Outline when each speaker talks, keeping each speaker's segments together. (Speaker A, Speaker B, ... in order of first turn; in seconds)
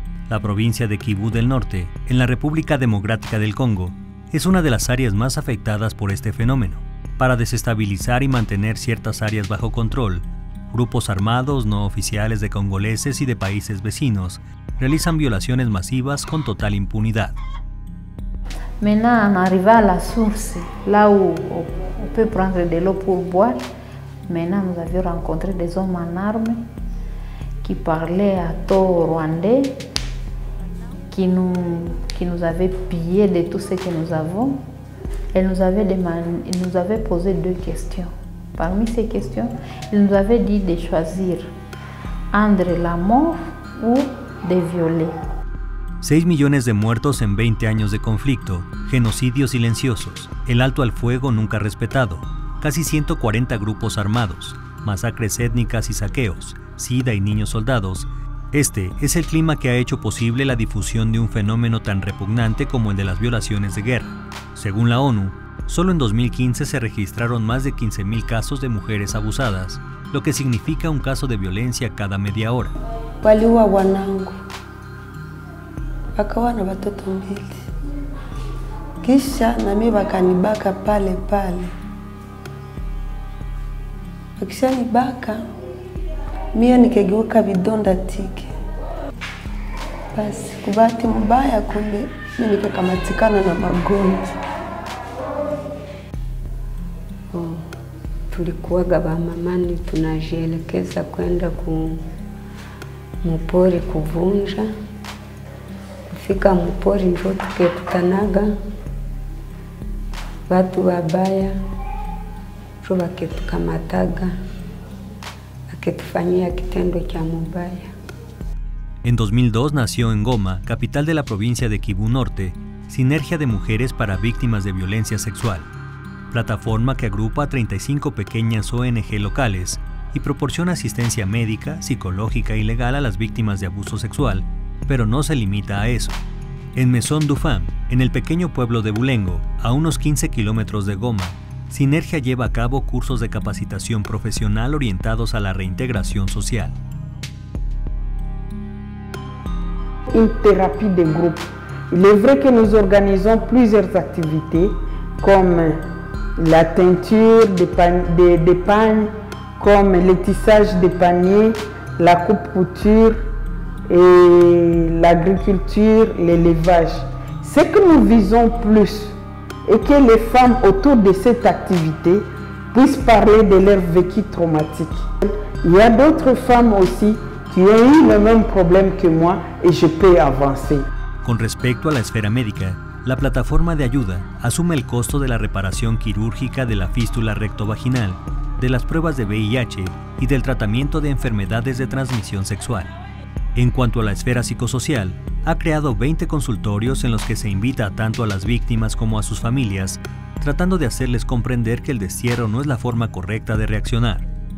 Speaker A: 0.3-17.4, 46.0-72.7, 119.0-125.7, 126.3-136.2, 136.7-146.8, 181.2-192.9, 193.6-204.3
Speaker B: 18.8-23.6, 24.2-26.6, 27.6-29.8, 31.1-34.6, 35.3-41.5, 42.3-45.2
Speaker C: 73.2-74.1, 76.2-77.3, 79.0-81.7, 84.4-85.4, 86.5-88.5, 90.1-93.9
Speaker D: 73.9-74.4, 76.8-77.6, 91.6-91.9, 93.9-94.2, 97.3-97.6, 98.3-102.0, 103.2-104.7, 106.1-108.5, 110.5-111.5, 112.8-114.3, 115.7-117.9
Speaker E: 150.1-155.8, 156.4-163.2, 163.9-180.8